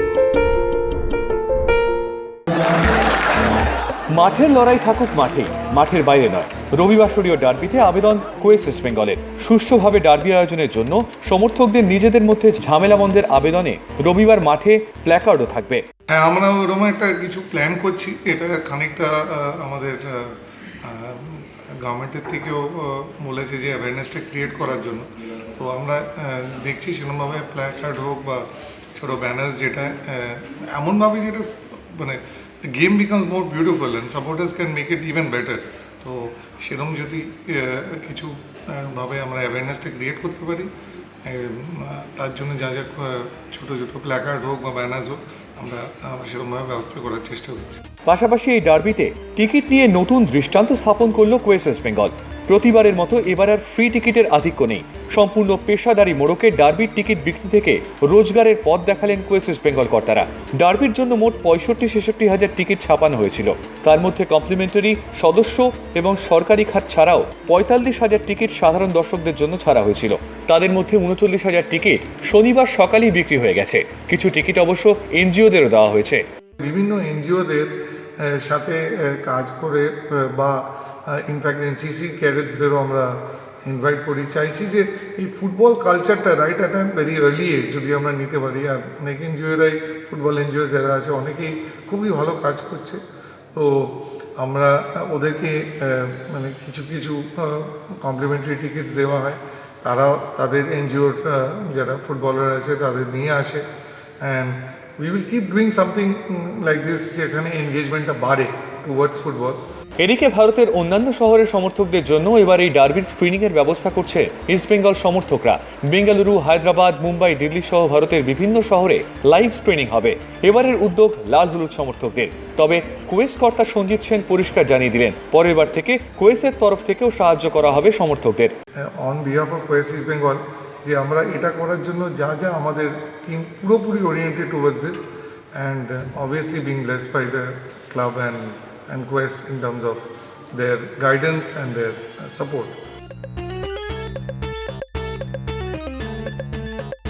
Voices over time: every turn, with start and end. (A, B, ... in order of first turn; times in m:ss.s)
0:04.1-0:15.8 A
0:16.1-0:40.7 B
0:41.2-0:47.8 B
0:48.1-1:16.2 A
1:16.6-1:23.1 B
1:23.6-1:33.0 B
1:33.5-1:43.6 B
1:44.2-1:49.6 B
1:50.0-2:08.5 A
2:08.9-2:22.8 B